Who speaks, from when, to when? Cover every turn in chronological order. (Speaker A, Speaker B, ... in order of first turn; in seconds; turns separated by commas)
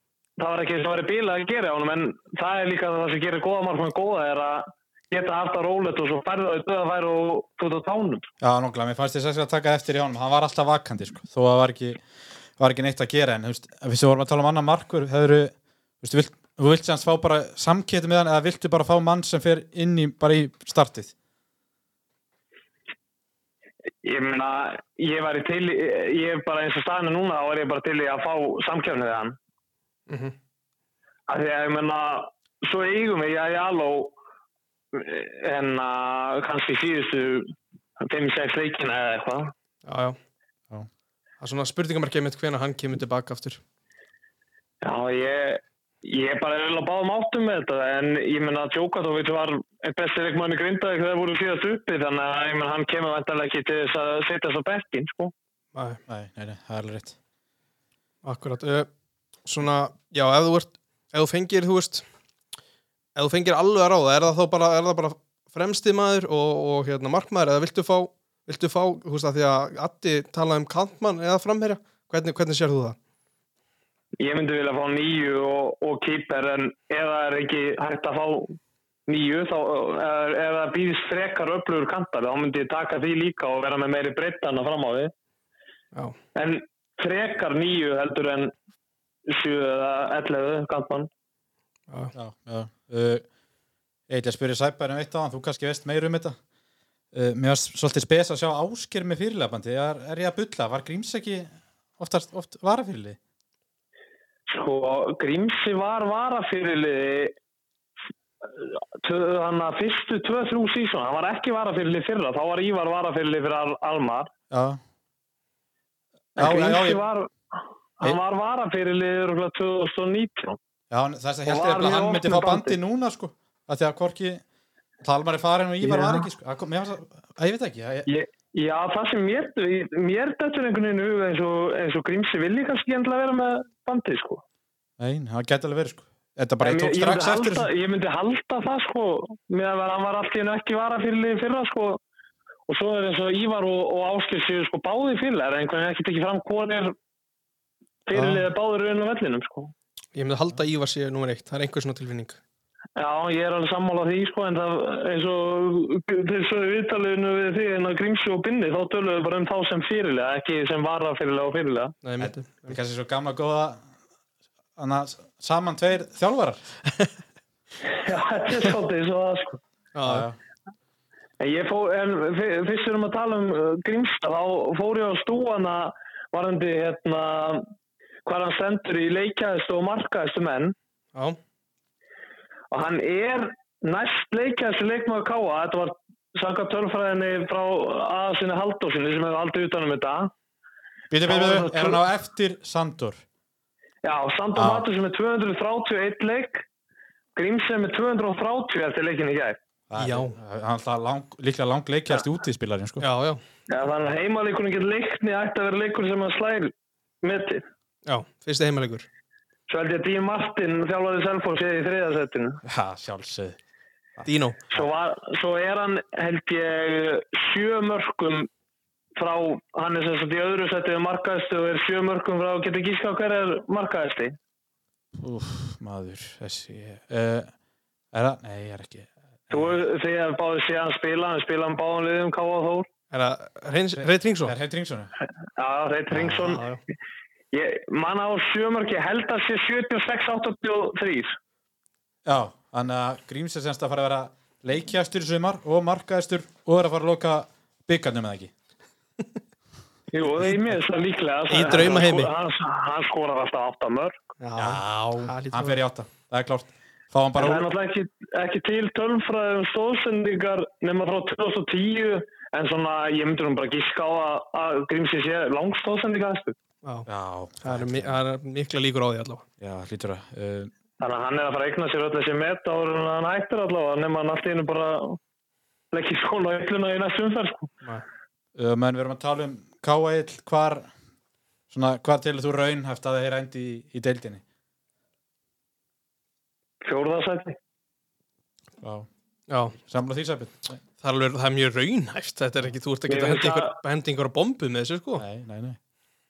Speaker A: 0.4-8.3, Speaker B: 8.4-12.0, Speaker B: 12.6-21.1, Speaker A: 24.0-29.4, Speaker C: 30.1-30.3, Speaker A: 31.3-34.1, Speaker A: 34.9-39.5, Speaker C: 39.8-40.2, Speaker C: 41.4-43.6, Speaker A: 44.8-55.3, Speaker C: 55.7-56.0, Speaker B: 56.1-57.1, Speaker C: 58.2-58.9, Speaker C: 59.4-62.0, Speaker C: 63.1-73.0, Speaker A: 74.2-85.1, Speaker A: 86.3-88.5, Speaker A: 89.3-91.1, Speaker B: 92.1-93.2, Speaker B: 94.1-96.4, Speaker B: 97.1-103.2, Speaker A: 104.5-107.3, Speaker A: 108.4-114.3, Speaker B: 114.5-114.8, Speaker B: 116.3-117.0, Speaker A: 116.4-117.3, Speaker A: 118.0-120.6, Speaker B: 120.9-124.4, Speaker A: 121.5-122.8, Speaker B: 125.0-128.1, Speaker A: 125.8-126.3, Speaker A: 128.1-134.4, Speaker B: 135.0-137.7, Speaker A: 136.6-142.0, Speaker A: 142.7-146.9, Speaker A: 148.1-149.7, Speaker C: 150.1-152.4, Speaker A: 152.9-161.9, Speaker C: 162.0-162.8, Speaker B: 162.2-163.8, Speaker B: 164.8-166.7, Speaker A: 167.9-169.6, Speaker C: 169.9-170.3, Speaker B: 170.0-170.4, Speaker A: 171.4-177.7, Speaker A: 178.2-180.7, Speaker A: 182.7-190.3, Speaker B: 191.1-193.2, Speaker A: 191.3-192.0, Speaker A: 194.0-196.6, Speaker B: 194.5-194.9, Speaker A: 197.3-199.6, Speaker B: 199.9-203.1, Speaker C: 199.9-200.4, Speaker C: 203.0-203.4, Speaker A: 203.7-207.6, Speaker C: 208.1-209.1, Speaker A: 209.7-212.6, Speaker B: 212.6-213.6, Speaker B: 214.2-214.9, Speaker C: 214.2-214.6, Speaker A: 214.7-218.5, Speaker A: 219.2-224.3, Speaker B: 225.1-227.5, Speaker B: 228.1-229.8, Speaker A: 229.5-232.9, Speaker C: 233.1-234.5, Speaker B: 233.9-235.1, Speaker A: 235.5-236.6, Speaker B: 236.1-236.6, Speaker C: 236.4-236.8, Speaker A: 237.5-241.3, Speaker B: 242.2-248.5, Speaker A: 250.1-254.3, Speaker C: 251.5-252.3, Speaker C: 254.4-255.8, Speaker B: 254.6-257.7, Speaker A: 257.4-266.6, Speaker B: 267.1-268.2, Speaker C: 267.6-269.4, Speaker B: 269.6-270.7, Speaker A: 271.0-275.2, Speaker A: 275.9-277.7, Speaker B: 278.6-280.9, Speaker B: 281.7-284.4, Speaker A: 286.8-287.6, Speaker B: 288.8-289.1, Speaker C: 289.5-289.8, Speaker B: 289.8-290.8, Speaker C: 291.0-295.2, Speaker A: 293.1-293.8, Speaker B: 295.2-295.8